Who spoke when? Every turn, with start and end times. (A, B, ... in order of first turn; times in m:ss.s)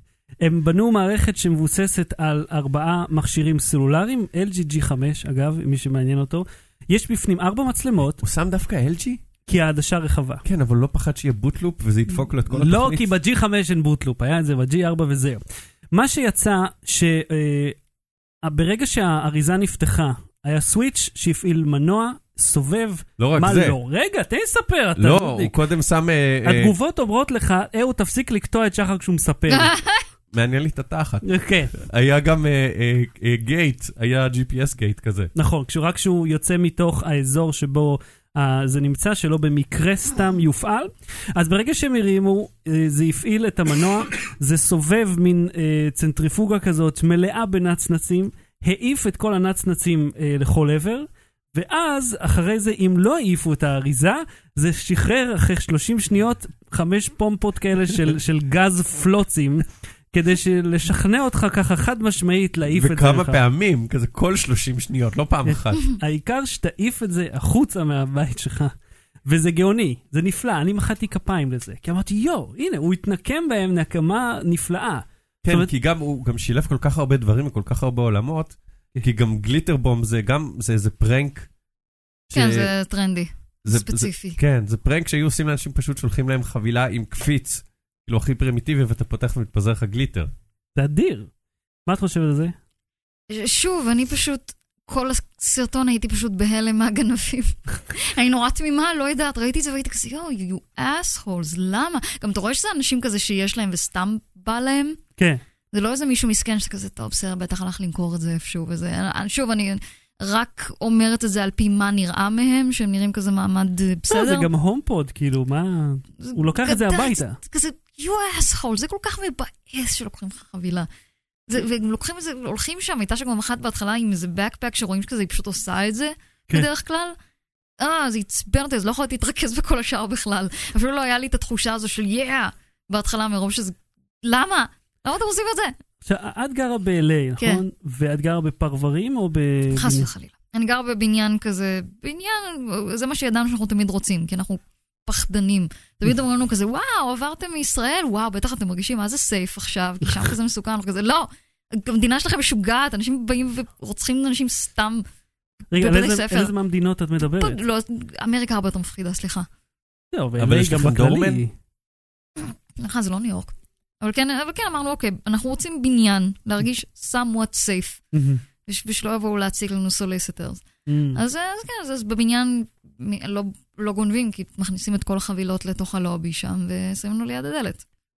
0:00.4-0:08.2 A
0:08.2-0:09.2 B
0:09.4-0:10.4 A
0:10.4-0:13.1 B
0:12.5-0:17.8 A
0:18.4-0:25.6 A
0:23.2-0:23.8 B
0:25.0-0:26.7 B
0:26.4-0:29.7 A
0:29.5-0:30.0 C
0:30.3-0:35.3 B
0:31.2-0:31.7 A
0:35.3-1:03.4 A
1:02.7-1:05.8 B
1:05.5-1:15.7 A
1:15.4-1:21.5 B
1:22.3-1:22.7 B
1:22.3-1:24.4 C
1:23.6-1:30.3 B
1:30.8-1:31.3 A
1:31.8-1:32.6 A
1:33.3-1:45.0 C
1:45.2-1:45.4 A
1:45.7-1:54.5 C
1:54.1-1:57.4 A
1:56.2-2:00.9 C
2:01.5-2:07.2 C
2:07.8-2:15.7 C
2:16.0-2:20.1 A
2:19.7-2:35.0 C
2:35.7-2:37.6 A
2:35.7-2:36.5 C
2:37.3-2:39.5 C
2:40.1-2:41.5 A
2:40.4-2:41.4 B
2:42.4-2:48.0 C
2:48.1-2:48.4 A
2:48.6-2:57.8 C
2:50.9-2:51.2 A